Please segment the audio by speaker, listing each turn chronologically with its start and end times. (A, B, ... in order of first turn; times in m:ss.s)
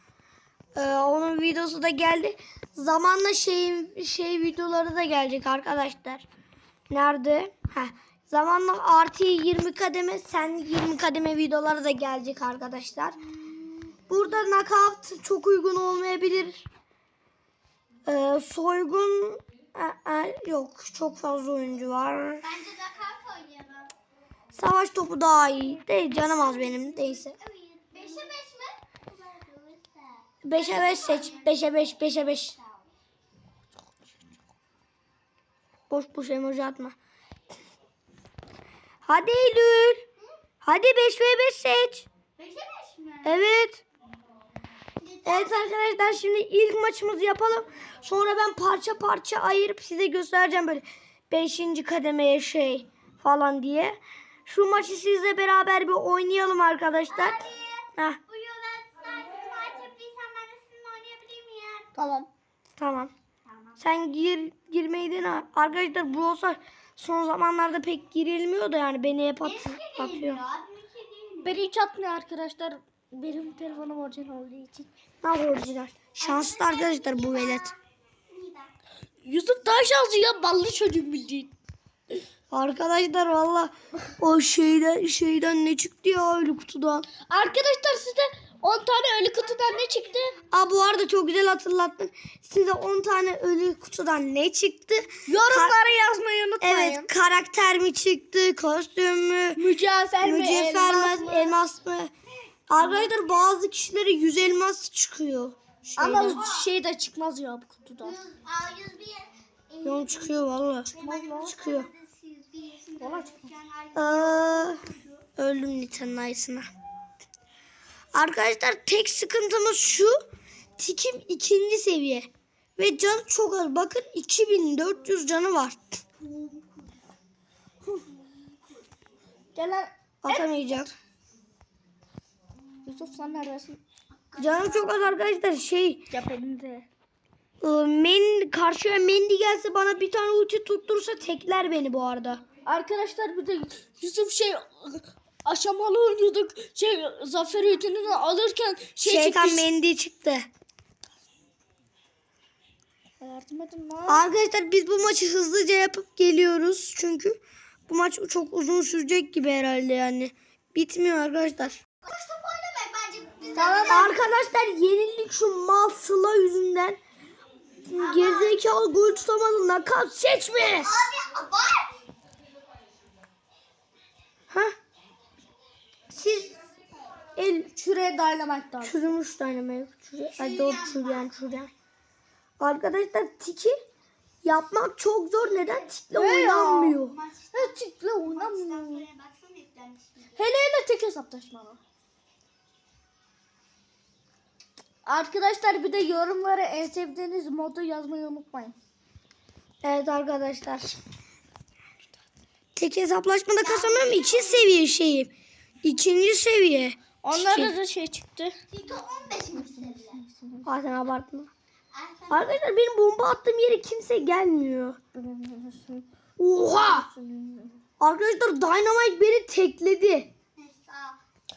0:00.7-0:06.2 A
0:06.9-0:13.2 A
0:14.1-0:16.6 A
0:18.0-0:22.4 A
0:22.4-0:23.9 B
0:24.5-0:27.4 A
0:26.3-0:31.9 B
0:30.4-0:32.6 A
0:32.6-0:32.8 B
0:35.9-0:37.0 A
0:39.0-0:40.0 A
0:40.6-0:42.0 A
0:42.4-0:43.5 B
0:43.2-0:43.8 A
0:45.0-0:45.7 B
0:45.2-0:57.4 A
0:57.1-1:01.9 B
1:01.9-1:02.3 C
1:02.8-1:03.1 A
1:03.4-1:03.8 B
1:03.8-1:10.4 A
1:09.4-1:11.6 B
1:11.4-1:14.9 C
1:15.2-1:17.7 A
1:16.2-1:17.7 B
1:18.3-1:18.7 B
1:19.2-1:21.5 C
1:22.5-1:27.1 A
1:27.3-1:30.4 C
1:30.5-1:35.8 A
1:35.2-1:37.1 C
1:36.6-1:39.6 A
1:39.6-1:41.6 C
1:40.2-1:42.1 A
1:42.7-1:46.4 A
1:46.0-1:48.2 C
1:46.2-1:46.7 B
1:48.0-1:50.4 B
1:49.8-1:51.9 A
1:50.9-1:55.2 B
1:50.9-1:51.6 C
1:53.0-1:53.5 C
1:53.9-1:54.8 A
1:55.4-1:56.7 A
1:58.1-2:00.1 A
2:00.8-2:06.0 A
2:06.2-2:06.9 B
2:08.1-2:08.8 B
2:09.5-2:10.5 C
2:10.2-2:10.9 A
2:12.8-2:13.8 C
2:14.3-2:15.0 B
2:14.3-2:16.1 A
2:16.1-2:16.9 C
2:17.6-2:22.4 A
2:22.6-2:29.6 C
2:29.0-2:30.5 A
2:33.2-2:34.3 C
2:34.1-2:41.8 A
2:42.0-2:44.1 B
2:43.5-2:44.1 C
2:43.9-2:47.0 A
2:47.9-2:48.6 B
2:47.9-2:50.9 A
2:50.8-2:51.9 B
2:54.5-2:54.8 A
2:56.1-2:56.6 A
2:57.4-2:57.7 A
2:57.7-2:59.0 C
2:58.8-3:01.7 A
3:00.3-3:01.3 B
3:02.6-3:03.7 A
3:04.4-3:07.1 A
3:05.5-3:05.8 B
3:06.1-3:07.0 C
3:06.9-3:10.5 B
3:07.5-3:09.1 C
3:10.4-3:11.8 C
3:15.0-3:18.8 C
3:19.8-3:20.9 A
3:22.8-3:25.3 A
3:23.6-3:24.7 B
3:25.8-3:27.7 A
3:27.2-3:28.6 C
3:28.7-3:30.2 B
3:29.5-3:30.7 C
3:30.6-3:31.5 A
3:31.9-3:32.6 B
3:32.3-3:35.0 A
3:35.1-3:36.0 C
3:36.4-3:37.1 A
3:36.7-3:37.8 C
3:38.0-3:40.3 A
3:40.6-3:41.2 B